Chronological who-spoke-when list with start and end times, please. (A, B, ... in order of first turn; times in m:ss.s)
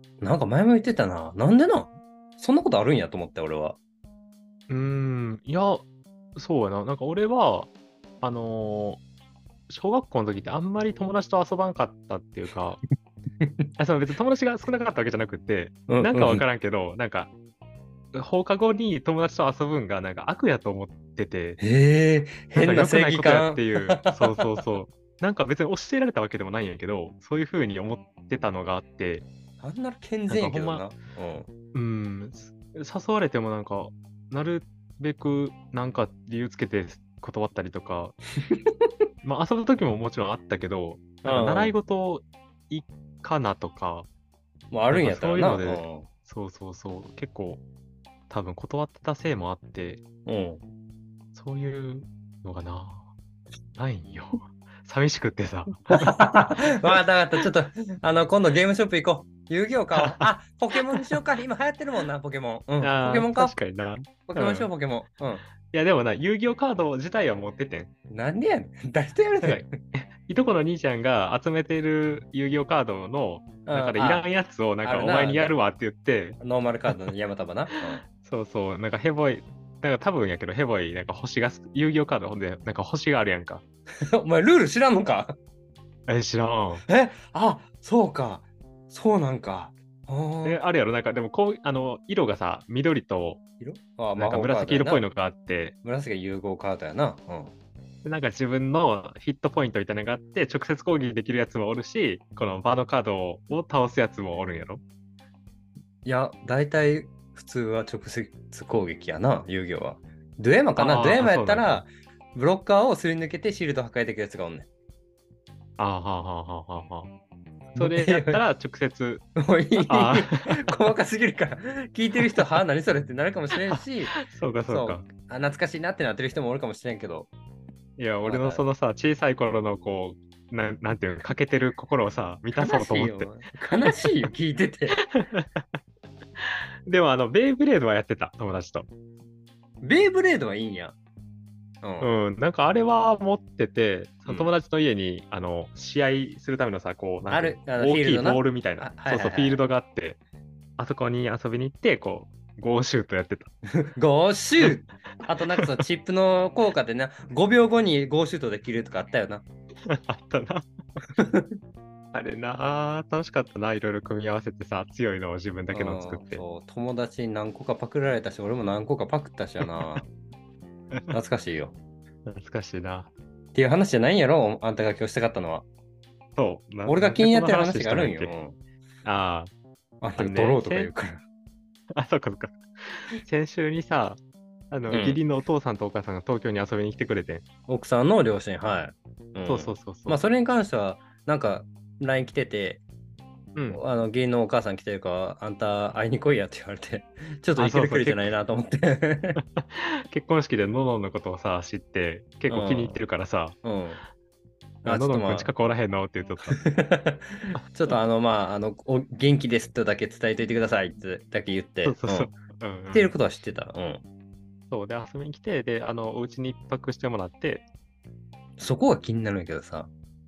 0:00.2-0:03.8 A
0:04.7-0:05.8 B
0:06.4-0:09.0 B
0:09.7-0:12.8 B
0:13.4-0:13.6 A
0:13.8-0:17.3 B
0:15.9-0:16.4 A
0:18.1-0:21.6 B
0:21.6-0:24.3 A
0:22.5-0:29.2 B
0:29.6-0:31.5 A
0:30.3-0:30.8 B
0:31.7-0:38.2 B
0:38.5-0:38.8 A
0:39.2-0:44.1 B
0:41.2-0:41.7 A
0:44.7-0:46.1 A
0:44.9-0:47.6 B
0:48.3-0:50.0 B
0:50.2-0:50.6 A
0:51.3-0:53.1 B
0:53.8-0:56.9 B
0:55.9-1:05.4 A
0:59.9-1:01.2 B
1:02.8-1:04.7 B
1:05.6-1:07.9 B
1:08.1-1:09.7 A
1:09.4-1:17.0 B
1:13.7-1:14.2 A
1:14.8-1:15.5 A
1:16.4-1:18.0 A
1:18.0-1:23.6 B
1:24.0-1:25.3 A
1:26.1-1:26.8 B
1:26.8-1:30.6 A
1:30.4-1:33.4 B
1:33.6-1:35.0 A
1:34.2-1:35.7 B
1:35.8-1:37.5 A
1:38.0-1:44.8 B
1:46.0-1:54.7 A
1:50.8-1:51.8 B
1:55.8-1:57.1 B
1:57.7-1:58.4 A
1:57.8-1:59.2 B
1:59.4-2:04.1 A
1:59.8-2:00.6 B
2:03.7-2:05.1 B
2:04.7-2:07.3 A
2:08.0-2:14.1 B
2:08.2-2:08.6 A
2:12.5-2:15.0 A
2:15.1-2:15.6 B
2:16.9-2:18.9 B
2:19.8-2:21.0 A
2:21.8-2:22.1 A
2:22.0-2:30.2 B
2:27.3-2:29.6 A
2:30.8-2:33.5 B
2:33.8-2:39.4 A
2:39.9-2:40.7 B
2:41.2-2:41.6 A
2:42.1-2:46.4 B
2:45.7-2:50.0 A
2:49.6-2:50.0 B
2:51.1-2:51.8 A
2:52.2-2:53.1 B
2:53.5-2:55.6 A
2:56.4-2:58.3 B
2:56.8-2:58.6 A
2:59.0-2:59.5 B
3:00.0-3:01.2 A
3:00.2-3:00.9 B
3:02.0-3:04.2 B
3:04.7-3:07.4 B
3:04.9-3:05.2 A
3:07.7-3:12.8 A
3:09.4-3:10.2 B
3:13.5-3:13.8 B
3:13.7-3:19.4 A
3:17.6-3:18.3 B
3:19.4-3:23.6 B
3:22.5-3:23.0 A
3:23.6-3:24.0 A
3:24.8-3:25.5 A
3:24.8-3:26.6 B
3:26.5-3:32.3 A
3:27.5-3:28.0 B
3:31.8-3:33.1 B
3:32.9-3:34.0 A
3:34.7-3:37.6 B
3:38.6-3:39.9 A